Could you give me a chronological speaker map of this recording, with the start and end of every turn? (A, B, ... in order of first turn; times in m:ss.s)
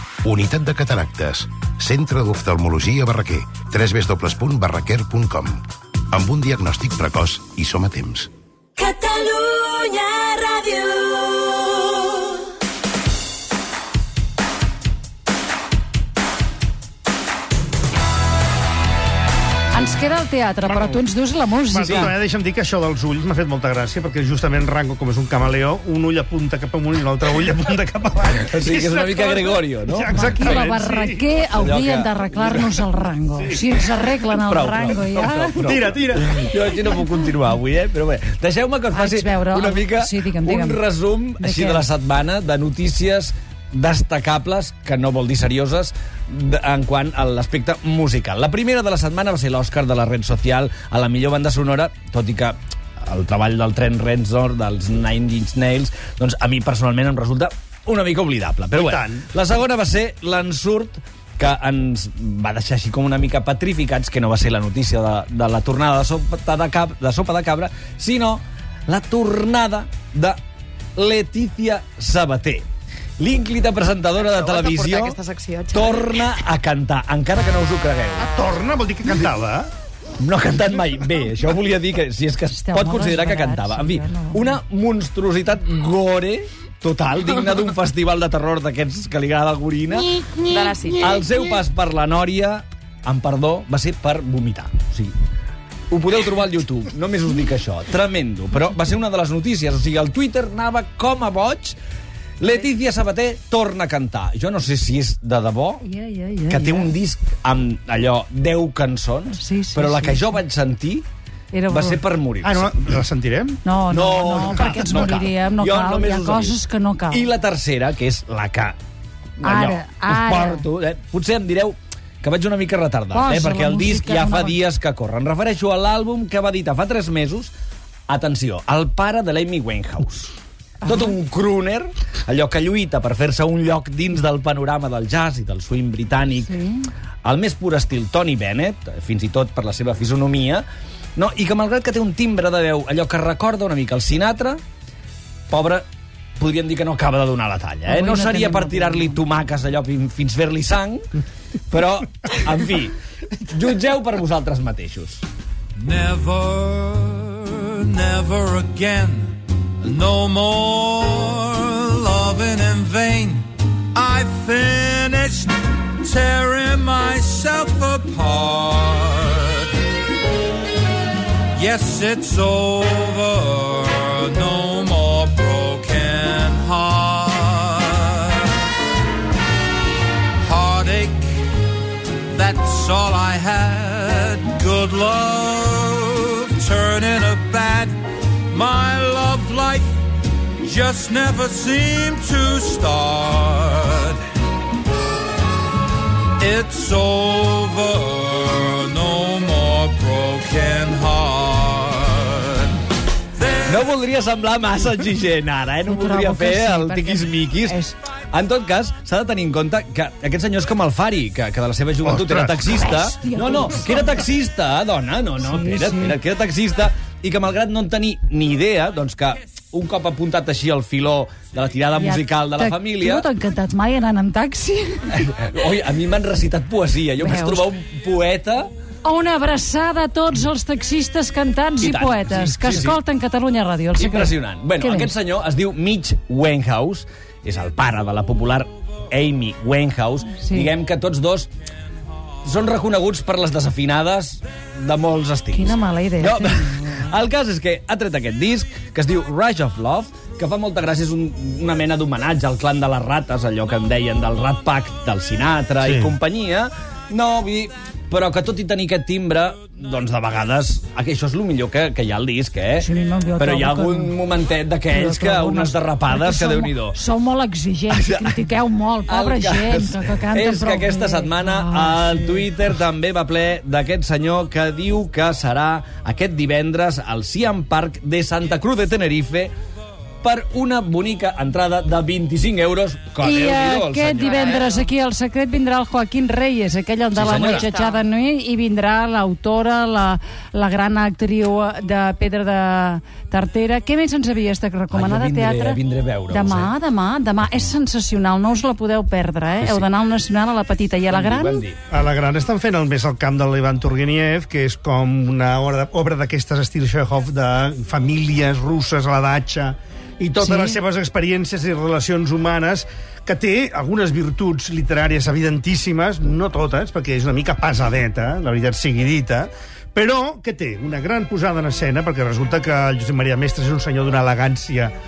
0:00.2-0:08.3 A
0:08.8-0:11.6 B
0:19.7-0:22.1 C
0:20.6-0:21.0 D
0:21.6-0:31.4 D
0:21.8-0:22.1 E
0:28.3-0:30.6 E
0:30.1-0:35.6 C
0:31.5-0:32.7 E
0:33.4-0:33.9 D
0:34.4-1:10.4 E
0:35.6-0:36.4 D
0:38.9-0:40.8 C
0:41.4-0:41.8 C
0:58.7-0:59.3 D
1:11.0-1:12.6 E
1:13.2-1:15.2 E
1:14.2-1:16.2 F
1:15.7-1:18.3 E
1:18.2-1:19.7 D
1:20.2-1:35.1 E
1:22.5-1:24.6 C
1:30.4-1:31.2 F
1:35.9-1:41.8 E
1:42.4-1:45.8 E
1:45.8-1:46.9 C
1:46.5-1:51.0 E
1:49.3-1:50.4 C
1:51.5-1:52.0 C
1:51.7-1:52.7 E
1:52.4-1:53.6 D
1:53.6-1:57.3 C
1:53.9-1:58.8 E
1:54.4-1:55.2 D
1:59.4-2:07.5 E
1:59.4-2:00.6 C
2:03.1-2:04.6 C
2:08.1-2:10.3 E
2:10.8-2:11.2 C
2:10.8-2:16.5 E
2:16.4-2:16.9 C
2:17.2-2:24.6 E
2:25.5-2:25.8 E
2:26.4-2:31.0 E
2:27.9-2:29.2 C
2:31.7-2:32.9 E
2:33.5-2:35.2 E
2:35.8-2:49.7 G
2:51.5-2:58.6 G
3:00.4-3:01.4 G
3:02.3-3:08.0 G
3:08.5-3:10.0 G
3:10.6-3:14.2 G
3:16.4-3:22.7 G
3:23.4-3:23.8 G
3:23.6-3:27.8 E
3:25.9-3:27.9 C
3:28.3-3:43.2 E
3:32.0-3:32.7 D
3:32.6-3:34.2 C
3:35.4-3:36.2 C
3:41.9-3:45.2 C
3:45.1-3:48.7 E
3:47.2-3:47.7 C
3:49.0-3:55.1 C
3:51.8-3:53.0 E
3:54.0-4:01.5 E
4:00.4-4:00.7 C
4:02.4-4:22.9 E
4:05.5-4:07.1 C
4:15.8-4:16.2 D
4:22.8-4:24.1 C
4:23.4-4:27.0 E
4:24.9-4:32.5 C
4:27.9-4:28.5 E
4:29.0-4:39.5 E
4:40.2-4:44.7 E
4:43.2-5:01.6 C
4:44.2-4:44.9 F
4:47.1-4:47.7 E
4:47.2-4:48.0 F
4:54.9-4:56.7 E
4:59.6-4:59.8 E
5:01.1-5:01.8 E
5:01.9-5:24.9 D
5:10.4-5:10.8 C